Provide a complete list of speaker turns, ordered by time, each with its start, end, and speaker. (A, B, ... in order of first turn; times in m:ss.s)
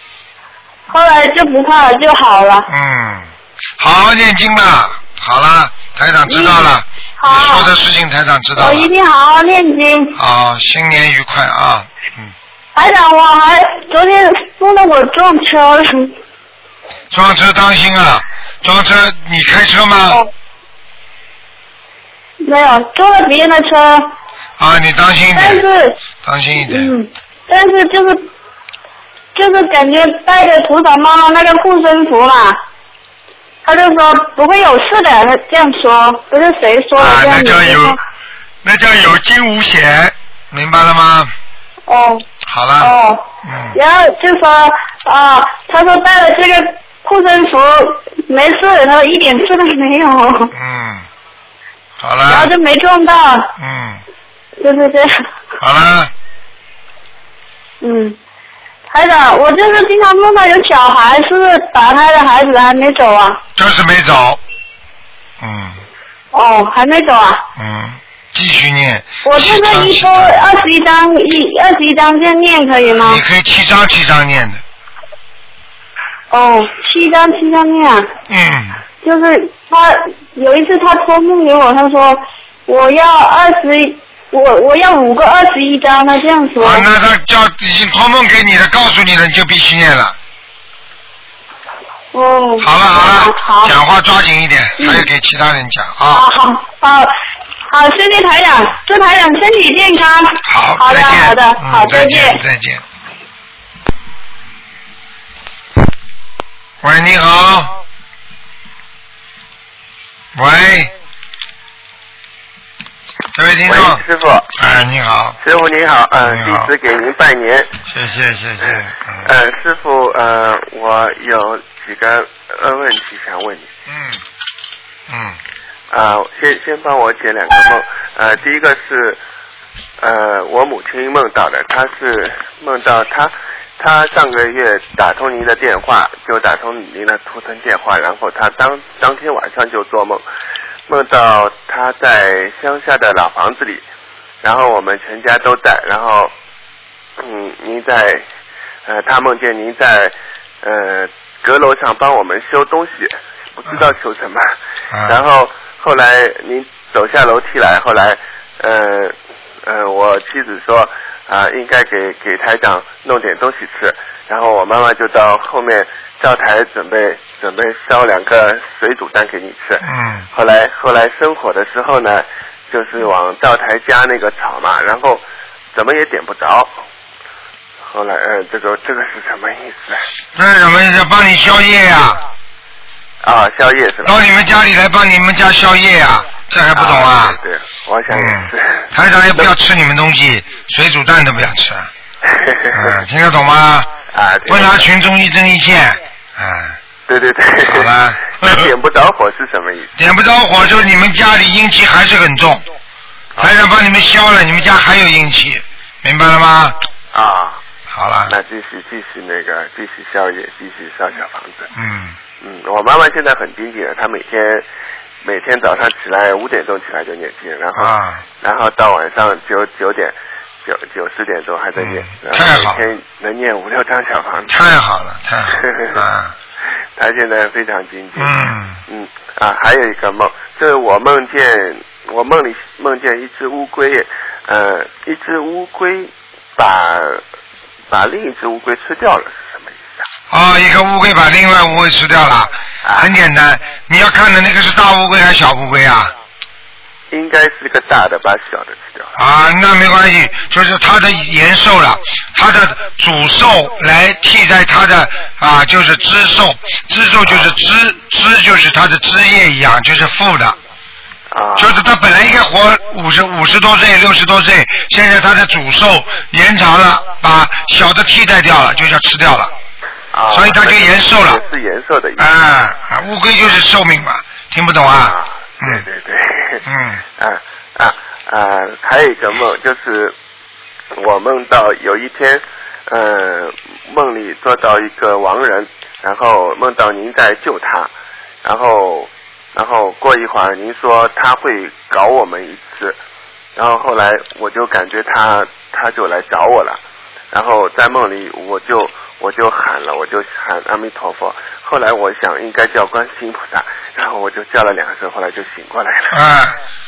0:00.9-0:02.7 A
0:02.7-0:08.9 B
0:06.3-0:06.7 A
0:07.2-0:07.7 A
0:08.6-0:10.2 A
0:10.2-0:12.3 B
0:12.8-0:16.1 A
0:17.1-0:20.2 B
0:22.4-0:24.1 A
0:24.6-0:25.6 B
0:25.4-0:26.0 A
0:26.2-0:26.9 B
0:26.7-0:28.3 A
0:29.4-0:32.6 A
0:33.6-0:38.0 A
0:37.0-0:38.0 B
0:38.6-0:41.3 B
0:41.9-0:42.2 A
0:42.5-0:42.9 B
0:42.8-0:50.5 A
0:43.4-0:43.8 B
0:50.5-0:51.1 B
0:52.0-0:52.5 B
0:52.3-0:53.5 A
0:53.6-0:54.0 B
0:54.6-0:55.1 A
0:55.6-0:56.1 B
0:57.8-0:58.2 A
0:58.9-1:03.4 A
1:03.6-1:04.4 B
1:05.4-1:05.8 B
1:06.3-1:07.4 A
1:07.6-1:10.5 B
1:09.2-1:13.2 A
1:13.0-1:14.6 B
1:16.3-1:18.1 A
1:18.3-1:18.8 B
1:19.0-1:26.9 A
1:26.6-1:30.2 B
1:32.1-1:33.8 A
1:32.6-1:36.3 B
1:34.8-1:35.1 A
1:36.1-1:37.1 A
1:37.7-1:42.4 A
1:40.5-1:42.8 B
1:46.8-1:47.7 B
1:50.4-1:50.9 B
1:53.4-1:55.4 B
1:53.6-1:54.5 C
1:55.4-1:57.7 C
1:56.2-1:56.7 B
1:57.9-1:59.3 B
1:58.6-2:03.7 C
2:03.9-2:04.2 B
2:05.1-2:05.4 B
2:05.9-2:09.2 C
2:10.0-2:20.2 C
2:20.9-2:23.8 C
2:24.4-2:26.3 C
2:27.2-2:28.2 C
2:28.9-2:34.5 C
2:34.9-2:35.2 B
2:35.1-2:55.2 C
2:49.8-2:50.3 B
2:55.7-2:56.7 C
2:57.8-3:00.1 C
3:00.4-3:02.2 B
3:03.2-3:04.2 C
3:04.0-3:07.4 B
3:06.7-3:09.5 C
3:08.1-3:11.9 B
3:12.2-3:13.0 C
3:12.7-3:13.9 B
3:14.1-3:14.9 C
3:14.5-3:16.8 B
3:17.1-3:19.9 C
3:17.6-3:18.6 B
3:20.0-3:22.7 B
3:23.4-3:26.8 B
3:27.1-3:27.6 C
3:27.9-3:28.4 B
3:28.3-3:31.7 C
3:31.7-3:32.2 B
3:32.4-3:34.6 C
3:35.2-3:44.6 C
3:37.8-3:38.2 B
3:41.8-3:42.8 B
3:44.5-3:46.4 B
3:45.5-3:46.0 C
3:47.0-3:57.2 C
3:48.2-3:48.8 B
3:57.9-4:00.0 C
4:00.3-4:06.1 B
4:02.8-4:03.1 C
4:07.1-4:09.2 C
4:09.2-4:20.6 B
4:17.2-4:17.6 C
4:21.3-4:21.8 C
4:21.6-4:29.5 B
4:30.1-4:32.3 C
4:30.3-4:31.4 B
4:32.2-4:35.8 B
4:34.8-4:36.6 C
4:36.6-4:37.0 B
4:37.2-4:40.2 C
4:41.0-4:47.9 C
4:48.4-4:53.0 C
4:53.6-4:56.8 C
4:57.3-5:06.2 C
5:06.1-5:06.6 B